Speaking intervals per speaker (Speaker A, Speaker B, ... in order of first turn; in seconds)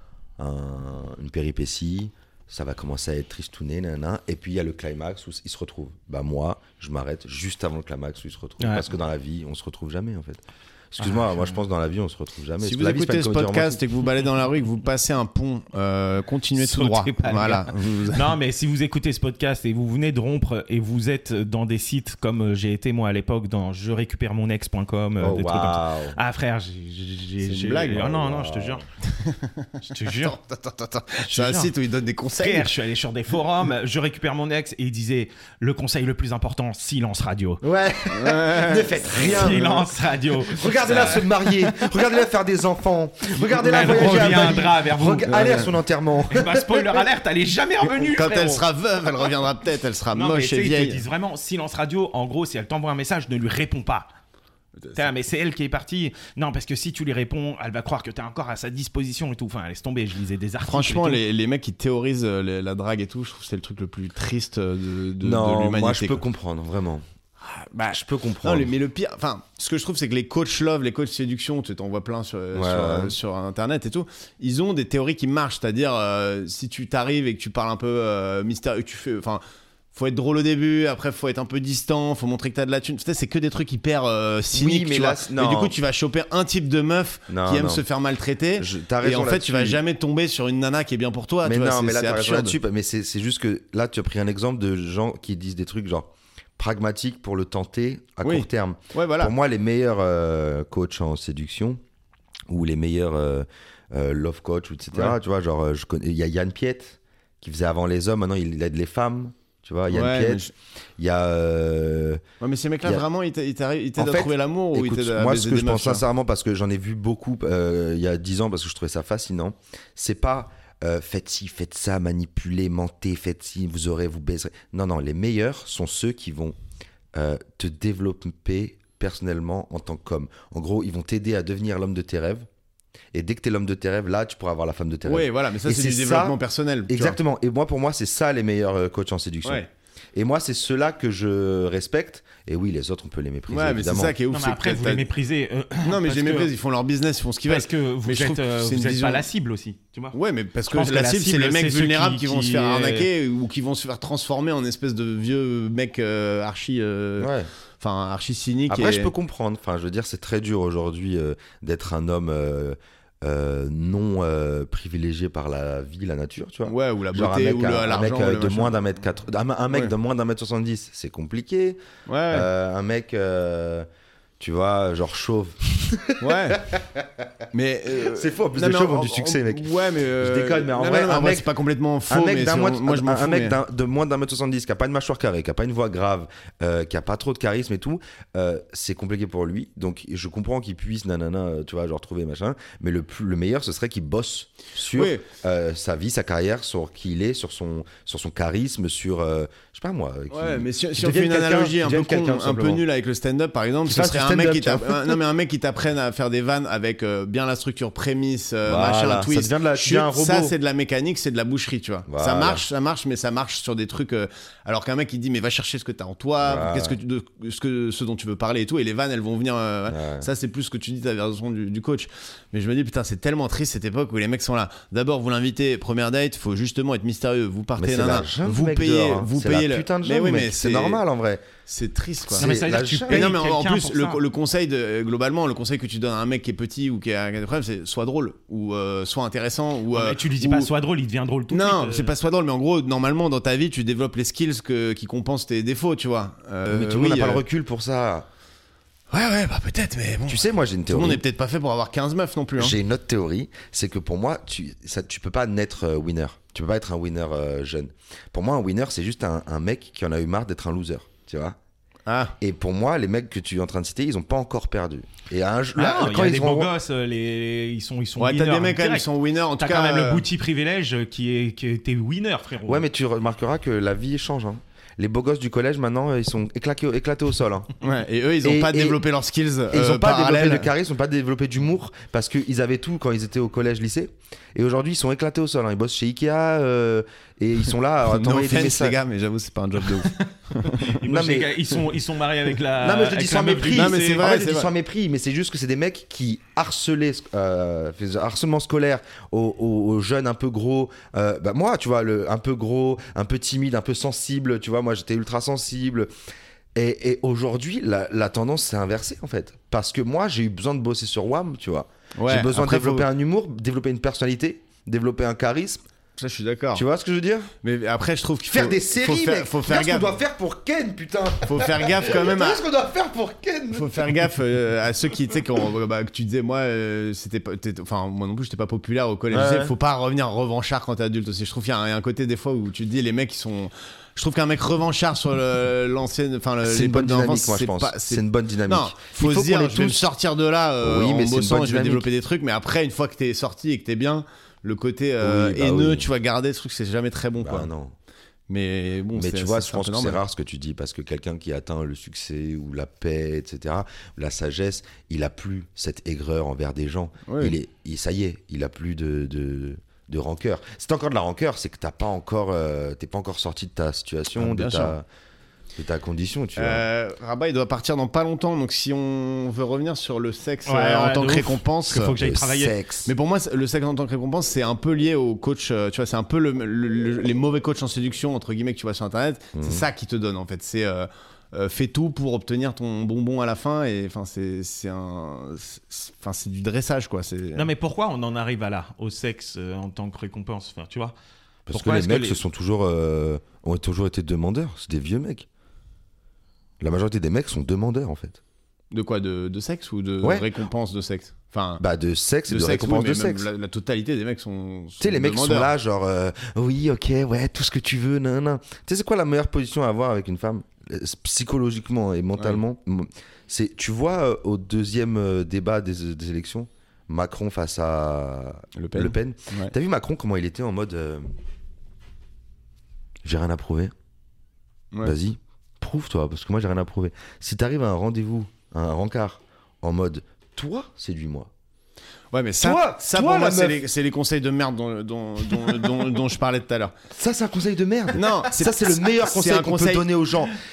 Speaker A: 0.4-13.8, 25.2-26.2, 27.9-28.8, 37.6-39.8, 40.5-47.0, 65.2-67.0, 67.9-68.7, 72.5-73.1, 84.5-85.7, 87.3-87.8, 88.6-89.8, 91.4-101.8, 102.5-112.2, 114.0-126.5, 127.1-132.5, 133.1-144.1, 157.2-157.5, 158.7-173.9, 174.4-177.0, 178.0-181.5, 182.1-202.8, 203.8-205.2, 208.6-210.5, 212.1-212.7, 216.4-217.0, 219.9-220.3, 227.8-231.4, 232.4-233.3, 246.7-248.3, 250.3-251.2, 252.6-261.6, 262.4-266.7, 272.7-277.7, 278.4-279.0, 279.7-289.0, 291.0-291.5, 292.8-306.1, 306.7-315.8, 316.7-317.5, 318.5-324.1, 329.3-329.7, 336.6-340.1, 340.8-342.1, 345.2-346.1, 347.4-347.9, 349.1-365.0, 365.8-366.8, 372.2-373.1, 379.5-379.9, 391.7-395.4, 396.8-398.4, 400.2-400.5, 401.8-403.5, 405.0-421.3, 423.2-423.9, 425.0-431.5, 432.6-433.8, 437.1-440.6
Speaker B: 8.6-8.9, 11.0-11.6, 16.6-28.8, 29.9-30.4, 31.2-31.7, 32.4-37.6, 39.1-41.3, 43.6-45.5, 46.3-48.6, 50.1-54.1, 54.9-61.2, 144.3-146.5, 147.5-150.2, 150.7-153.1, 232.4-234.2, 239.9-242.1, 265.7-272.9, 290.0-294.3, 370.6-372.8, 387.5-391.1, 391.7-392.4
Speaker C: 12.6-18.3, 27.4-28.1, 29.1-32.7, 38.1-39.6, 44.0-44.5, 45.3-45.7, 48.0-51.0, 54.8-55.1, 60.6-66.2, 67.4-79.4, 79.9-92.6, 98.2-99.3, 109.9-110.5, 112.4-116.0, 135.0-137.2, 143.5-145.1, 145.8-149.3, 150.1-159.1, 166.7-168.8, 172.1-172.5, 176.2-176.6, 177.5-183.6, 194.9-195.2, 200.3-231.0, 231.6-240.7, 241.5-247.4, 249.1-252.8, 262.1-262.4, 268.2-270.2, 277.8-280.7, 288.1-290.9, 293.7-294.7, 312.1-313.1, 316.2-316.8, 317.6-320.1, 321.4-322.6, 323.7-347.7, 348.5-350.2, 357.2-357.6, 364.4-364.9, 366.6-372.2, 373.1-387.7, 398.9-401.8, 402.5-405.7, 418.7-419.7, 432.3-436.9, 438.1-440.1